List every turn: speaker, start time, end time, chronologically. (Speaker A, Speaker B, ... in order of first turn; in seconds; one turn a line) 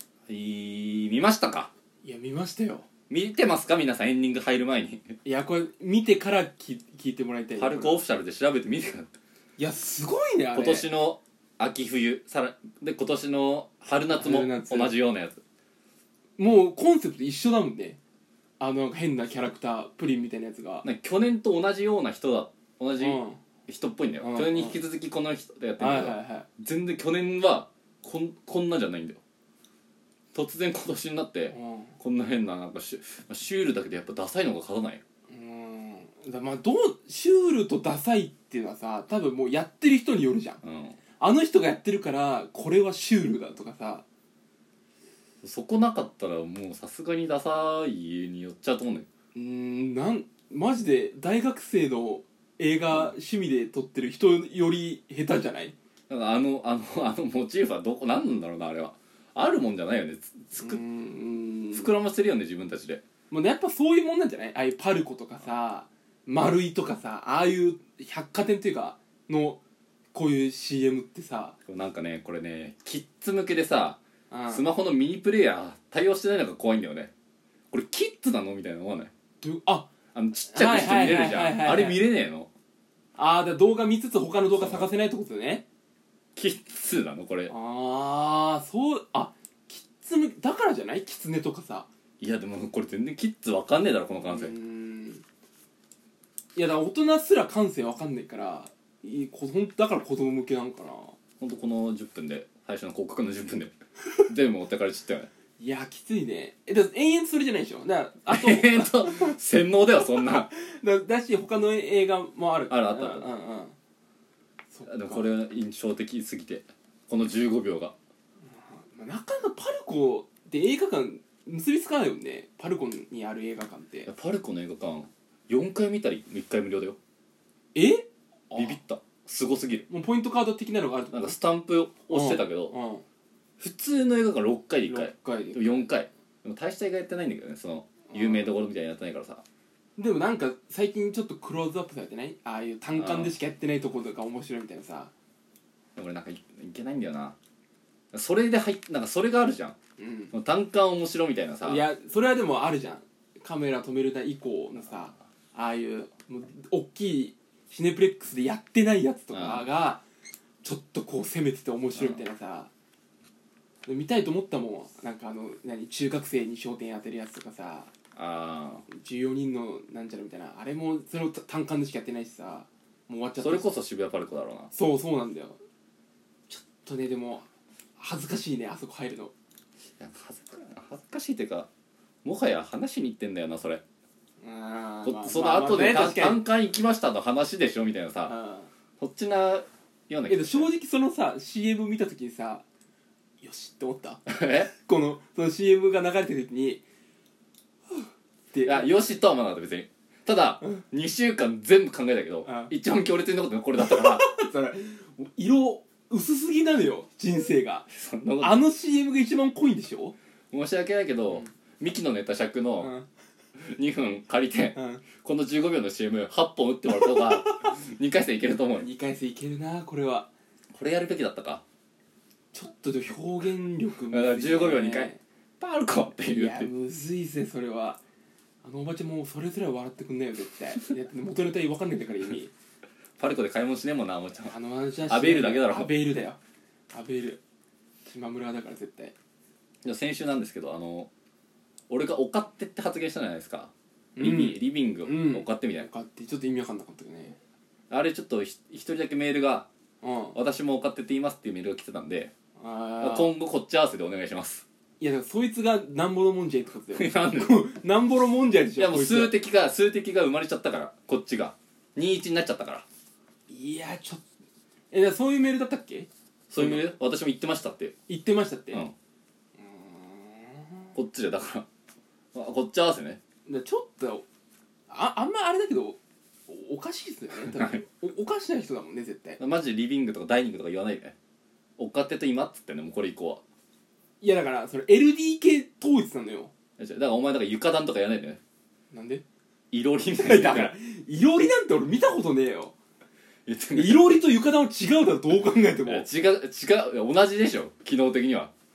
Speaker A: 0.3-1.7
Speaker B: 2.0-2.9
Speaker A: 3.1-5.2
Speaker B: 5.2-8.0
Speaker A: 7.5-9.1
Speaker B: 9.6-10.9
Speaker A: 10.5-15.4
Speaker B: 14.1-14.9
Speaker B: 16.4-18.0
Speaker B: 18.6-20.8
Speaker A: 20.8-29.2
Speaker B: 23.0-23.4
Speaker B: 24.2-24.8
Speaker B: 25.8-26.5
Speaker A: 30.3-35.0
Speaker B: 31.5-31.9
Speaker B: 35.3-40.6
Speaker A: 40.6-41.0
Speaker B: 41.2-44.0
Speaker A: 45.4-49.1
Speaker B: 49.3-55.7
Speaker A: 56.1-60.8
Speaker B: 60.6-61.9
Speaker A: 61.7-63.0
Speaker B: 63.3-69.6
Speaker B: 70.1-71.5
Speaker A: 71.7-77.1
Speaker B: 74.3-74.6
Speaker A: 77.7-79.1
Speaker B: 79.4-79.9
Speaker A: 80.1-82.5
Speaker B: 80.5-82.0
Speaker B: 83.2-85.6
Speaker A: 84.5-84.9
Speaker A: 86.3-87.5
Speaker B: 87.5-91.9
Speaker A: 92.2-94.5
Speaker B: 94.2-95.2
Speaker B: 96.5-101.1
Speaker A: 101.4-103.7
Speaker A: 104.2-105.3
Speaker B: 105.6-109.3
Speaker A: 108.3-110.5
Speaker B: 110.4-113.7
Speaker A: 112.7-113.3
Speaker B: 114.7-115.3
Speaker A: 114.8-117.9
Speaker B: 118.5-124.1
Speaker A: 124.1-127.0
Speaker B: 127.7-128.8
Speaker A: 128.6-129.9
Speaker B: 129.9-131.3
Speaker A: 131.1-132.7
Speaker B: 132.1-133.0
Speaker A: 133.6-139.4
Speaker B: 134.9-135.9
Speaker B: 138.1-138.4
Speaker B: 140.0-145.1
Speaker A: 142.9-143.3
Speaker A: 145.9-147.3
Speaker A: 148.1-149.8
Speaker B: 150.0-150.3
Speaker A: 150.3-151.8
Speaker B: 151.6-160.0
Speaker A: 159.3-159.7
Speaker B: 160.6-162.7
Speaker A: 161.9-162.2
Speaker B: 163.8-167.9
Speaker A: 168.1-168.8
Speaker B: 168.9-173.7
Speaker A: 173.4-174.7
Speaker B: 174.7-175.6
Speaker B: 176.5-177.4
Speaker B: 178.0-179.3
Speaker A: 180.0-181.7
Speaker A: 182.2-183.8
Speaker B: 184.4-186.4
Speaker A: 185.0-188.3
Speaker B: 188.3-188.7
Speaker A: 189.0-190.7
Speaker B: 190.3-192.6
Speaker B: 193.4-196.8
Speaker A: 194.3-194.7
Speaker B: 198.5-198.9
Speaker A: 198.6-204.3
Speaker B: 202.4-202.7
Speaker B: 203.8-207.9
Speaker A: 207.9-208.6
Speaker B: 208.4-210.1
Speaker A: 210.5-212.9
Speaker B: 212.8-213.1
Speaker A: 213.6-218.9
Speaker B: 214.7-215.0
Speaker B: 216.9-217.7
Speaker B: 218.8-220.3
Speaker A: 220.7-221.6
Speaker B: 222.5-225.2
Speaker A: 224.1-226.7
Speaker B: 226.3-228.0
Speaker B: 228.6-232.5
Speaker A: 233.2-235.9
Speaker B: 234.5-236.4
Speaker B: 236.9-237.4
Speaker B: 238.0-239.1
Speaker A: 239.8-241.1
Speaker A: 241.9-245.9
Speaker B: 244.2-247.4
Speaker A: 247.9-249.7
Speaker B: 250.0-250.3
Speaker A: 250.3-252.3
Speaker B: 252.6-253.3
Speaker A: 253.0-254.6
Speaker B: 255.0-259.3
Speaker A: 256.9-257.6
Speaker A: 258.8-262.8
Speaker B: 263.5-264.2
Speaker B: 264.9-266.9
Speaker A: 266.5-267.9
Speaker B: 268.1-268.8
Speaker B: 269.6-270.9
Speaker A: 270.9-271.7
Speaker A: 272.3-273.2
Speaker B: 273.5-274.2
Speaker B: 274.9-279.4
Speaker A: 279.4-281.1
Speaker A: 281.8-283.4
Speaker B: 284.2-286.5
Speaker A: 286.8-288.4
Speaker B: 288.9-289.2
Speaker A: 289.7-290.7
Speaker B: 290.2-292.7
Speaker A: 293.4-294.2
Speaker B: 293.7-296.1
Speaker A: 295.8-298.5